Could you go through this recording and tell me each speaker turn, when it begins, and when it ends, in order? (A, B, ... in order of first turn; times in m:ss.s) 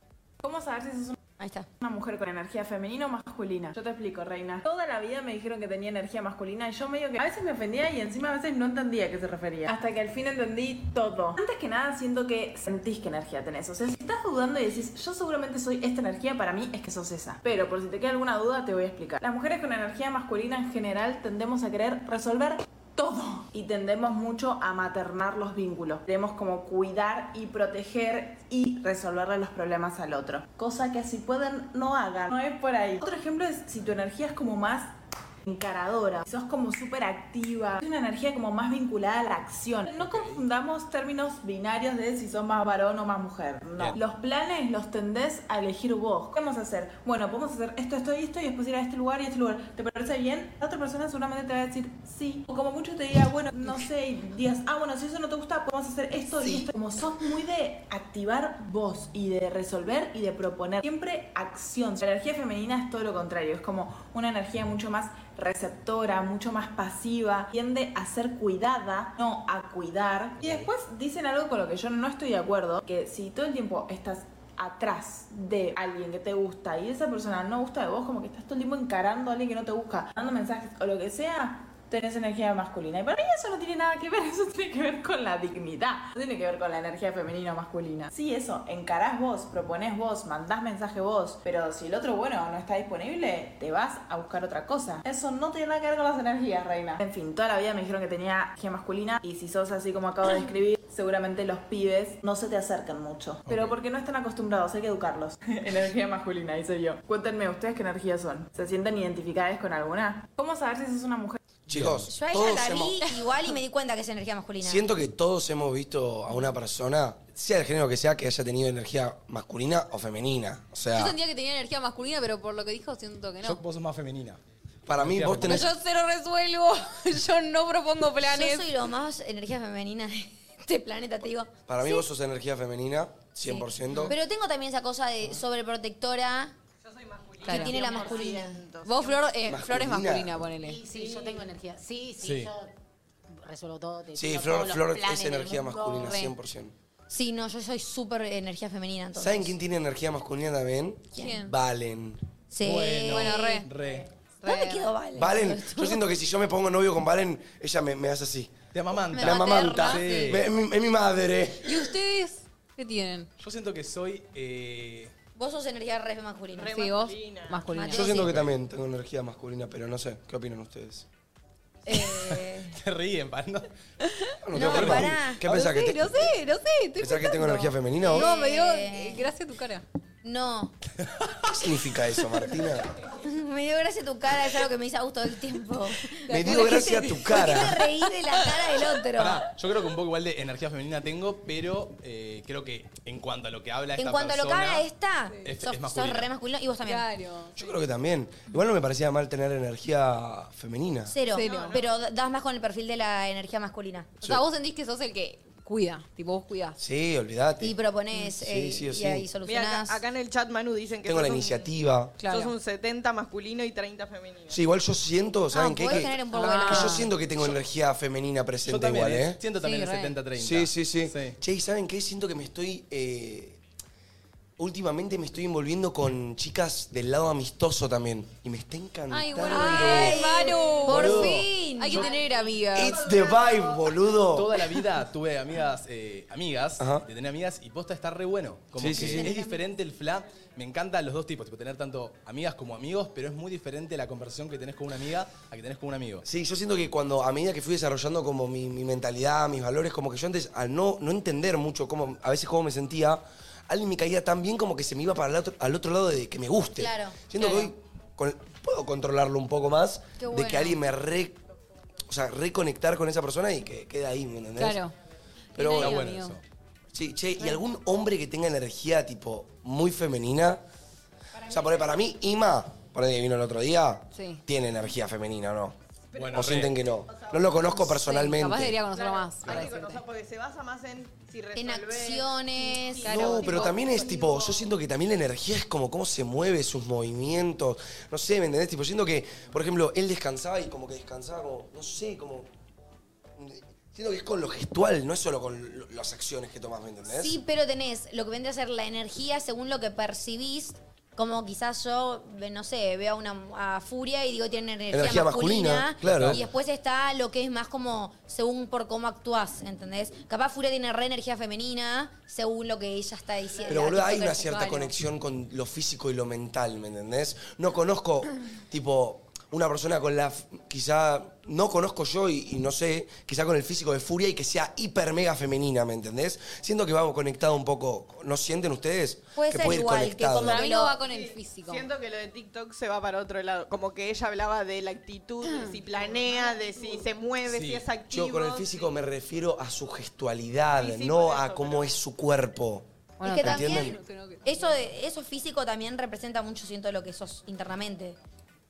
0:00.4-0:01.2 A
0:01.4-0:01.7 B
0:01.8-1:51.4 A
0:40.0-0:40.4 C
0:56.4-0:56.7 D
1:10.4-1:10.7 C
1:43.4-1:43.8 C
1:51.7-1:53.0 D
1:51.7-1:52.1 C
1:52.1-1:54.8 B
1:54.6-2:01.2 D
2:00.9-2:03.6 E
2:03.4-2:04.4 C
2:04.9-2:05.7 D
2:05.0-2:05.7 C
2:05.4-2:08.7 E
2:08.2-2:12.0 B
2:11.7-2:14.2 D
2:13.5-2:14.1 E
2:14.1-2:16.6 B
2:16.9-2:19.2 F
2:17.4-2:18.0 E
2:17.4-2:18.6 B
2:18.8-2:20.8 E
2:19.5-2:20.3 D
2:20.6-2:22.7 G
2:20.9-2:21.4 F
2:22.2-2:22.5 C
2:23.4-2:26.3 G
2:24.2-2:26.7 D
2:26.0-2:26.3 E
2:27.1-2:29.6 B
2:29.2-2:32.2 D
2:31.2-2:31.5 E
2:32.5-2:33.7 B
2:32.6-2:34.1 C
2:33.1-2:33.7 E
2:34.4-2:34.9 E
2:34.4-2:36.0 B
2:35.2-2:38.6 D
2:38.7-2:40.5 C
2:39.1-2:40.3 E
2:39.2-2:41.9 D
2:41.6-2:43.3 E
2:43.4-2:45.1 C
2:45.4-2:46.7 B
2:46.6-2:47.7 F
2:46.7-2:48.3 E
2:47.9-2:51.1 D
2:48.2-2:48.5 C
2:51.9-2:52.4 E
2:51.9-2:52.8 B
2:52.7-2:53.7 C
2:54.0-2:59.8 E
2:54.4-2:56.4 D
2:54.5-2:55.4 B
2:54.7-2:55.1 C
2:57.0-2:58.3 D
2:58.1-2:59.3 B
3:00.2-3:00.7 B
3:01.5-3:03.0 D
3:03.2-3:09.4 B
3:06.2-3:07.9 E
3:06.3-3:07.8 D
3:08.4-3:08.8 E
3:09.2-3:14.9 C
3:14.0-3:17.1 B
3:15.4-3:16.3 C
3:16.8-3:17.7 E
3:17.6-3:21.2 D
3:21.1-3:24.1 B
3:21.3-3:21.8 E
3:21.4-3:21.9 F
3:24.2-3:26.8 E
3:26.8-3:29.3 D
3:27.6-3:30.0 B
3:29.4-3:31.7 F
3:31.0-3:32.2 D
3:32.2-3:32.5 E
3:32.3-3:34.6 F
3:34.5-3:39.4 D
3:35.5-3:37.1 B
3:36.3-3:37.1 E
3:38.6-3:41.4 C
3:39.6-3:40.2 E
3:40.4-3:43.6 D
3:44.6-3:50.2 D
3:49.1-3:53.1 E
3:49.4-3:52.1 B
3:50.9-3:52.0 C
3:52.8-3:54.5 D
3:53.0-3:53.6 F
3:54.3-4:06.2 C
3:56.8-3:57.0 D
3:58.8-3:59.3 D
3:59.0-3:59.6 B
4:06.2-4:21.4 D
4:16.8-4:17.2 B
4:17.4-4:17.7 E
4:20.2-4:20.7 E
4:22.1-4:24.8 D
4:24.6-4:24.9 E
4:25.6-4:26.4 E
4:25.6-4:26.1 D
4:25.8-4:26.4 C
4:26.9-4:30.6 D
4:31.4-4:32.0 F
4:31.5-4:35.8 D
4:34.1-4:34.4 E
4:36.2-4:36.8 C
4:36.3-4:38.8 D
4:37.1-4:37.8 F
4:37.7-4:40.0 E
4:38.9-4:44.7 F
4:41.5-4:43.8 B
4:43.0-4:52.5 D
4:43.1-4:43.5 E
4:53.4-4:57.4 D
4:57.1-5:14.6 B
5:04.9-5:06.4 D
5:06.0-5:06.4 C
5:13.6-5:30.6 D
5:14.4-5:14.9 E
5:29.4-5:31.0 B
5:30.4-5:31.9 E
5:31.0-5:39.0 F
5:35.4-5:35.8 E
5:37.5-5:37.9 C
5:38.1-5:42.9 D
5:40.8-5:42.0 F
5:43.2-5:44.8 E
5:43.2-5:48.2 B
5:43.4-5:44.0 D